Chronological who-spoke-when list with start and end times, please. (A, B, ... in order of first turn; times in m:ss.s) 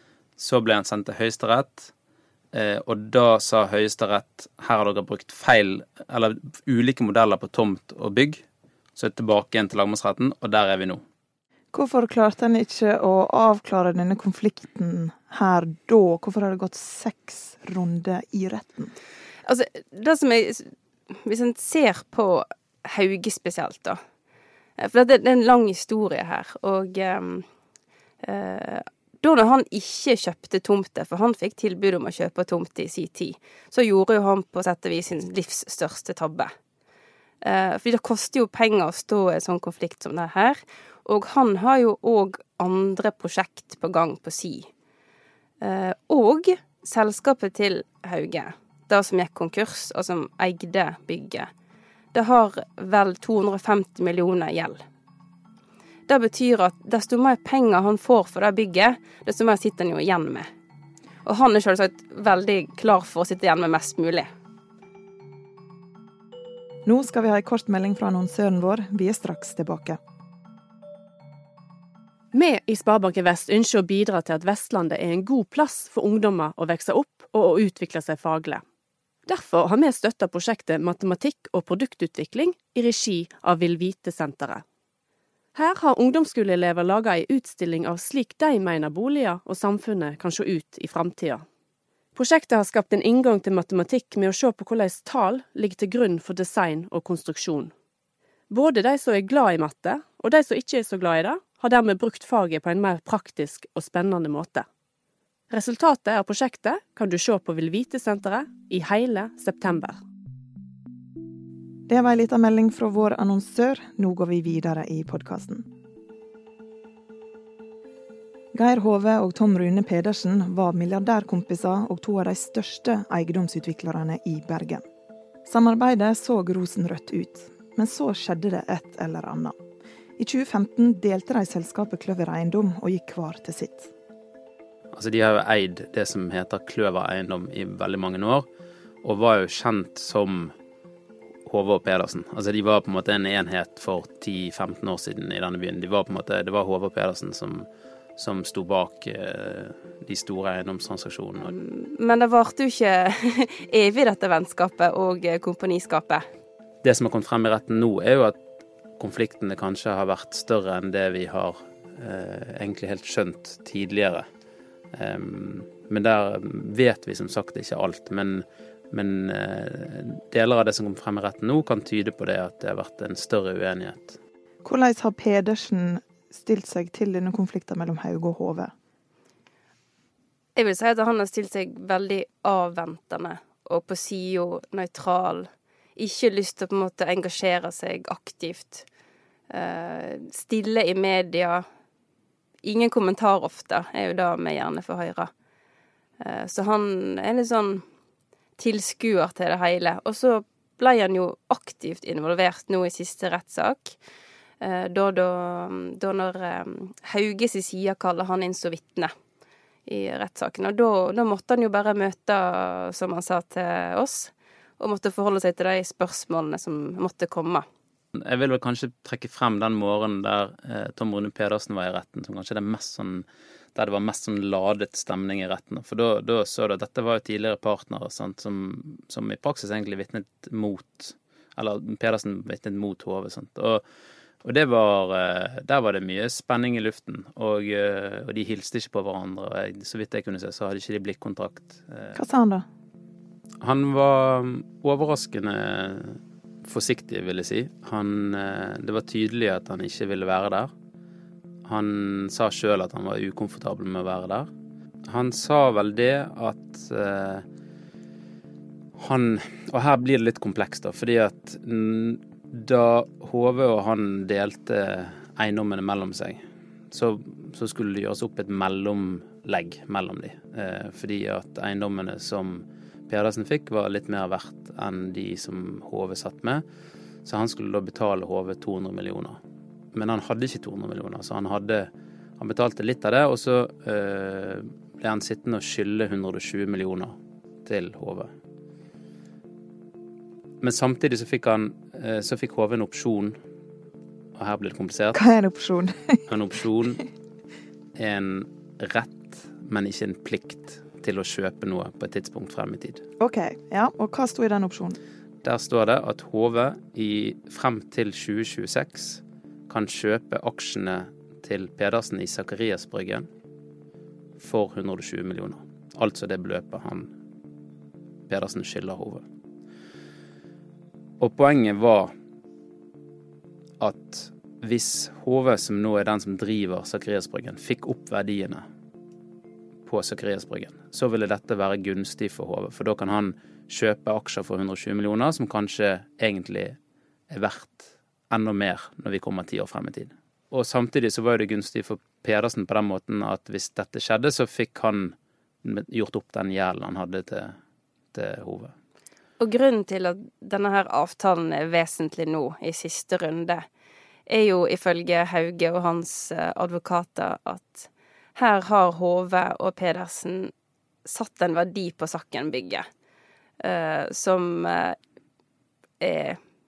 0:00.4-0:01.9 A
0:02.5-0:08.4 A
0:09.0-0:11.0 A
0:11.7-0:18.9 B
0:19.4-0:24.0 C
0:24.8-0:27.4 C
0:28.2-0:36.5 C
0:37.4-0:44.7 C
0:45.6-0:51.5 C
0:52.1-0:54.8 C
0:56.1-1:00.5 C
1:01.2-1:04.2 C
1:06.8-1:10.0 B
1:12.3-1:18.6 D
1:19.2-1:24.6 D
1:25.5-1:31.4 D
1:32.1-1:37.7 D
1:38.5-1:44.6 D
1:45.5-1:50.0 D
1:51.9-1:55.7 B
1:58.5-2:04.8 B
2:05.4-2:09.5 B
2:10.2-2:13.9 B
2:14.9-2:18.5 A
2:19.0-2:20.5 A
2:21.4-2:31.5 A
2:31.4-2:36.2 C
2:36.8-2:38.4 A
2:39.0-2:44.2 A
2:44.9-2:54.2 A
2:54.6-2:58.7 B
3:00.6-3:08.9 C
3:09.5-3:11.6 C
3:12.6-3:15.3 C
3:16.2-3:17.8 C
3:18.6-3:24.0 C
3:24.6-3:29.1 C
3:29.9-3:37.6 C
3:38.2-3:53.8 A
3:54.4-4:02.2 A
4:02.1-4:02.6 B
4:03.6-4:10.7 A
4:11.6-4:14.5 A
4:15.1-4:17.4 A
4:19.0-4:36.6 A
4:37.2-4:39.4 A
4:39.9-4:48.3 A
4:50.6-4:53.4 A
4:54.4-4:55.2 A
4:55.1-4:56.2 B
4:56.3-4:57.0 A
4:58.0-5:03.0 A
5:03.2-5:05.0 B
5:05.4-5:13.3 A
5:14.4-5:17.1 A
5:18.3-5:19.2 A
5:21.2-5:22.1 A
5:23.8-5:28.6 A
5:29.8-5:36.8 A
5:37.3-5:47.6 A
5:48.1-5:48.7 A
5:49.4-5:53.6 C
5:54.3-6:00.5 C
6:01.0-6:02.8 C
6:03.6-6:05.0 C
6:06.0-6:06.4 C